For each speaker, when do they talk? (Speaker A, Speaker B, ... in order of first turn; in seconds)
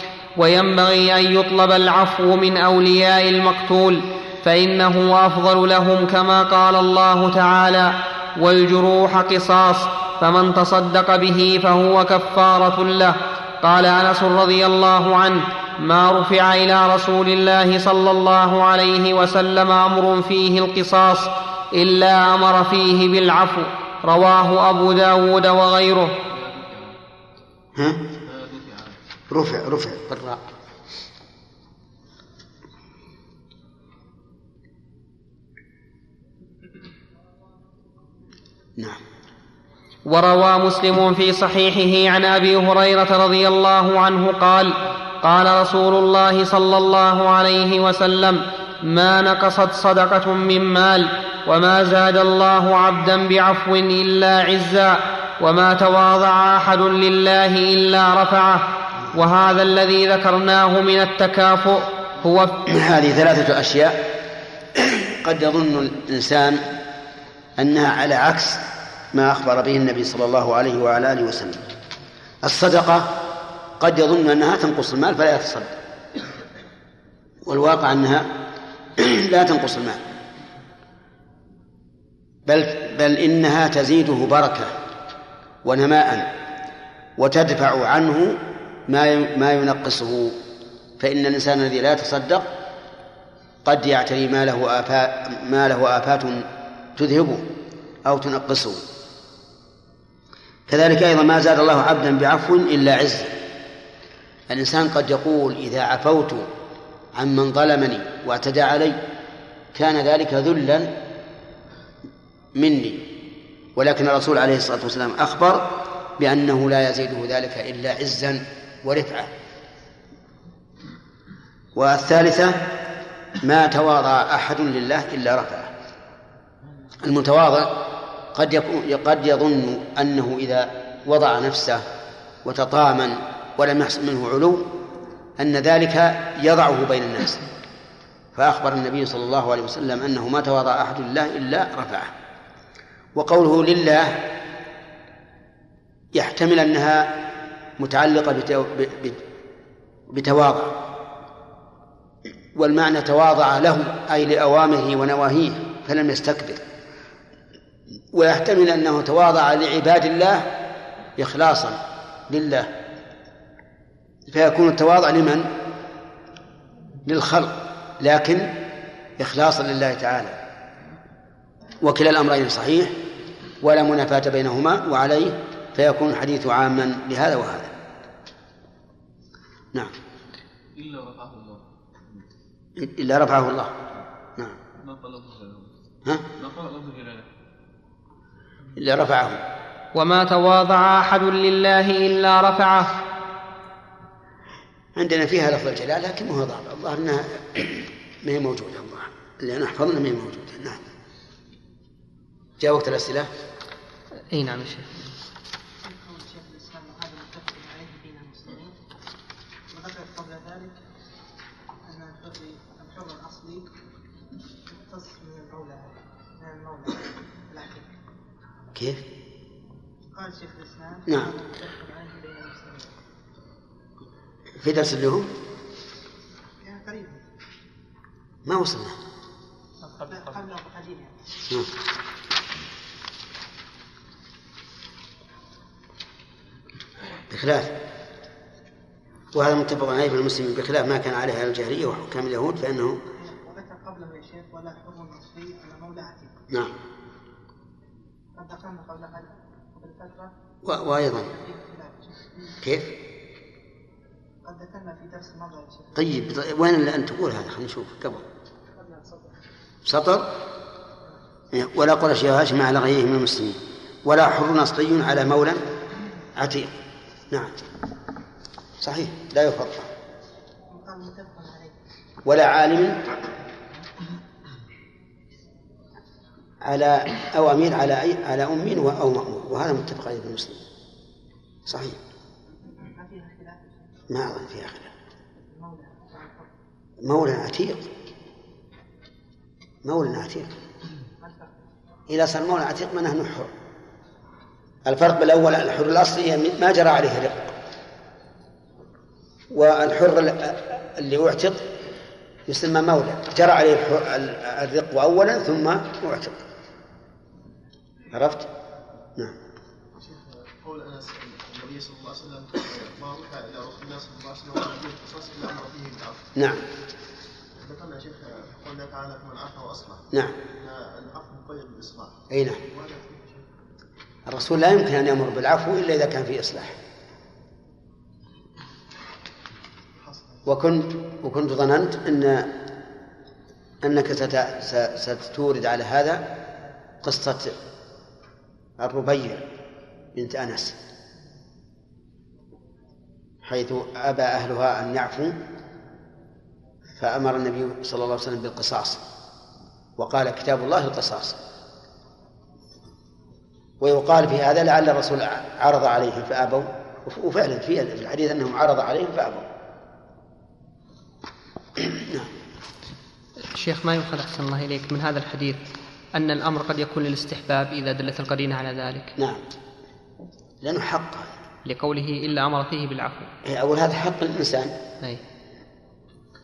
Speaker A: 0.4-26.2, 40.1-62.6, 189.9-193.0, 204.3-205.0, 363.4-369.1, 371.6-373.3
Speaker B: 26.2-27.0, 28.2-29.0, 180.7-181.6, 184.8-185.7, 186.4-187.3
Speaker C: 27.7-28.1, 29.3-30.4, 62.6-64.2, 64.8-66.6, 67.6-71.6, 72.4-73.2, 73.8-75.7, 77.4-78.4, 79.0-80.0, 82.5-84.7, 85.6-86.3, 87.2-90.4, 91.0-92.5, 93.6-97.5, 98.0-98.8, 100.7-103.3, 104.5-106.5, 107.1-109.0, 109.7-111.0, 112.5-113.1, 113.7-119.3, 121.7-122.8, 123.4-125.7, 127.0-131.8, 132.4-134.7, 135.4-137.5, 138.3-142.1, 143.1-144.3, 146.1-147.2, 147.8-149.2, 150.1-150.8, 152.5-156.6, 158.1-160.5, 161.2-162.7, 164.3-165.6, 167.0-168.6, 169.2-170.4, 171.8-173.0, 173.6-177.7, 182.8-183.8, 188.8-189.4, 194.9-200.8, 202.6-203.3, 218.7-219.0, 224.6-225.3, 228.4-229.0, 237.3-237.8, 239.3-243.0, 250.6-251.3, 252.6-252.9, 255.9-258.2, 259.9-260.3, 261.5-265.7, 266.4-266.7, 268.8-269.9, 272.2-273.0, 276.6-280.6, 281.7-282.0, 284.1-284.9, 287.0-287.9, 289.8-290.6, 292.1-293.5, 294.8-297.5, 299.5-301.7, 302.5-306.4, 308.1-308.5, 316.3-316.7, 320.1-320.4, 322.3-322.6, 324.2-326.8, 330.4-332.6, 333.8-336.3, 337.0-337.6, 338.8-339.5, 340.1-340.8, 343.4-345.4, 346.9-349.0, 350.0-351.4, 353.8-359.5, 361.8-362.3, 369.2-369.4, 370.6-371.3, 373.4-374.8
Speaker D: 205.8-208.7, 209.7-210.7, 211.9-213.7, 214.7-217.9, 220.1-222.9, 226.6-227.2, 229.9-231.1, 243.1-246.3, 248.3-250.3, 251.1-252.6, 254.4-256.1, 258.7-259.4, 270.7-271.7, 282.8-284.0, 285.5-286.5, 291.2-291.5
Speaker E: 309.9-316.3, 317.6-320.0, 320.6-323.4, 330.0-330.4